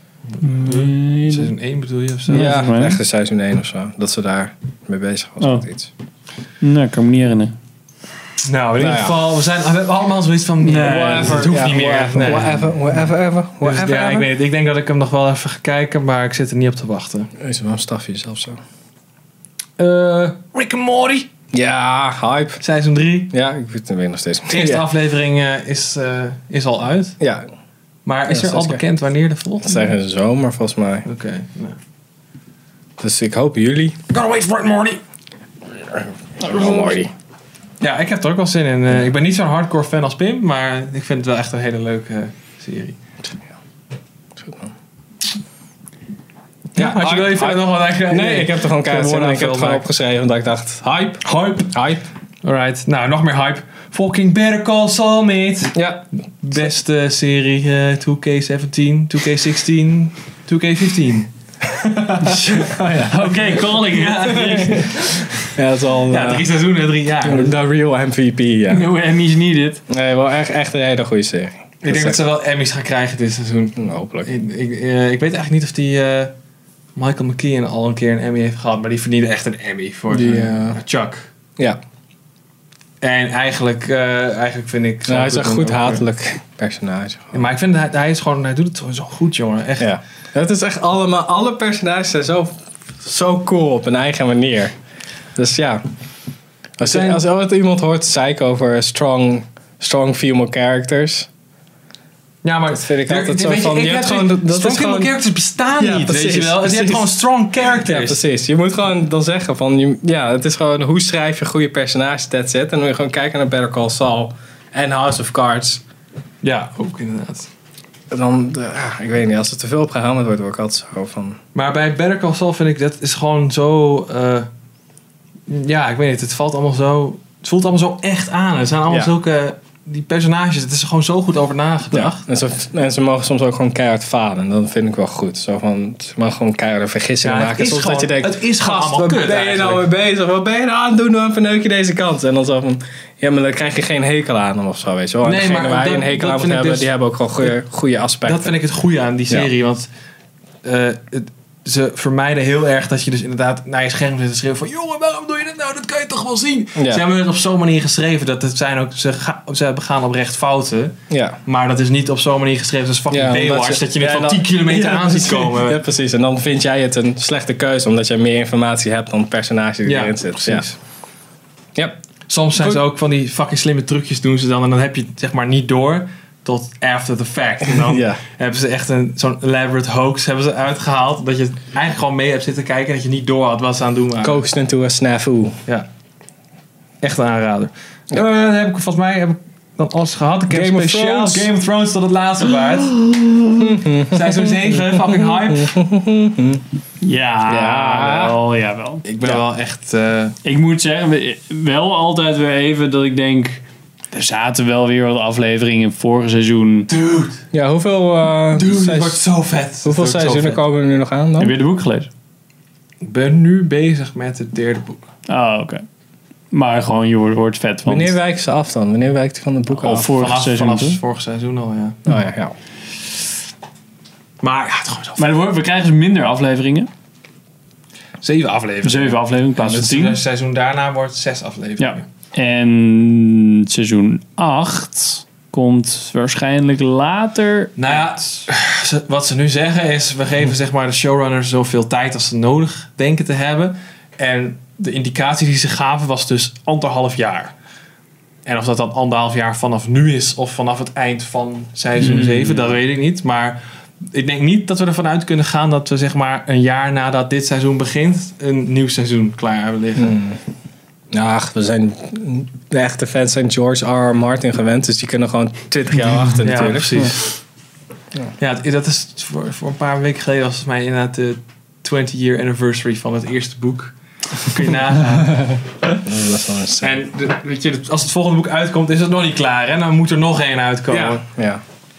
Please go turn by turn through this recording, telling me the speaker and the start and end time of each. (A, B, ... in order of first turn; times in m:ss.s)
0:00.4-0:01.5 A
0:00.5-0:02.6 B
0:02.3-0:03.0 A
0:02.3-0:05.9 C
0:06.6-0:07.5 A
0:08.4-0:12.7 B
0:08.8-0:09.2 C
0:10.6-0:11.7 A
0:10.8-0:14.3 C
0:13.6-0:17.3 B
0:17.4-0:18.6 C
0:19.8-0:21.3 B
0:21.5-0:22.6 C
0:22.6-0:23.3 B
0:23.3-0:24.8 C
0:24.5-0:27.2 B
0:27.2-0:27.4 C
0:28.0-0:29.9 B
0:28.3-0:28.8 C
0:29.6-0:31.0 C
0:31.0-0:31.8 B
0:33.0-0:34.0 C
0:34.1-0:35.0 B
0:36.4-0:37.1 C
0:36.4-0:37.0 B
0:37.8-0:43.0 B
0:44.4-0:44.7 C
0:46.7-0:49.8 B
0:46.7-0:52.0 C
0:51.2-0:51.7 B
0:52.4-0:55.8 B
0:55.7-0:56.0 C
0:56.4-1:01.3 B
1:01.7-1:03.4 C
1:02.3-1:02.6 B
1:03.0-1:04.9 A
1:03.8-1:05.6 B
1:04.4-1:06.4 C
1:06.1-1:07.6 B
1:07.2-1:08.9 C
1:08.7-1:09.8 A
1:09.9-1:12.2 C
1:11.8-1:16.3 B
1:13.8-1:14.3 C
1:17.0-1:21.3 B
1:20.1-1:20.8 C
1:23.0-1:26.0 B
1:25.1-1:27.4 C
1:27.3-1:29.9 B
1:29.8-1:34.7 C
1:35.4-1:35.8 C
1:36.8-1:41.3 C
1:36.8-1:37.2 B
1:42.4-1:48.2 B
1:42.7-1:45.2 C
1:45.8-1:47.2 C
1:47.8-1:55.8 C
1:56.4-1:57.5 B
1:58.1-2:01.4 C
2:01.5-2:04.5 B
2:05.5-2:12.2 B
2:11.9-2:28.5 C
2:17.2-2:19.9 B
2:25.2-2:26.9 B
2:28.2-2:29.9 B
2:30.6-2:45.8 B
2:36.8-2:37.0 C
2:41.1-2:41.4 C
2:43.1-2:50.7 C
2:49.8-2:50.7 B
2:52.3-3:04.4 B
2:57.6-2:58.2 C
3:04.2-3:05.5 C
3:07.0-3:15.7 B
3:10.5-3:11.5 C
3:13.6-3:16.6 C
3:17.0-3:19.0 A
3:17.5-3:18.4 C
3:19.0-3:20.4 B
3:20.4-3:26.9 A
3:26.9-3:27.4 B
3:27.5-3:29.2 C
3:28.5-3:30.6 B
3:29.8-3:31.6 C
3:31.4-3:32.1 A
3:33.0-3:35.0 B
3:35.3-3:35.8 A
3:36.5-3:38.1 A
3:37.8-3:40.2 C
3:39.8-3:41.0 A
3:40.1-3:42.0 B
3:42.0-3:42.5 C
3:44.4-3:45.3 B
3:45.2-3:46.9 A
3:48.2-3:52.0 B
3:48.8-3:50.2 A
3:51.8-3:57.9 A
3:57.8-4:07.5 B
4:08.4-4:20.2 B
4:12.0-4:12.6 A
4:20.0-4:20.4 C
4:21.1-4:27.1 C
4:26.4-4:27.4 B
4:28.4-4:35.6 B
4:35.9-4:37.0 C
4:36.8-4:41.2 B
4:40.9-4:41.6 C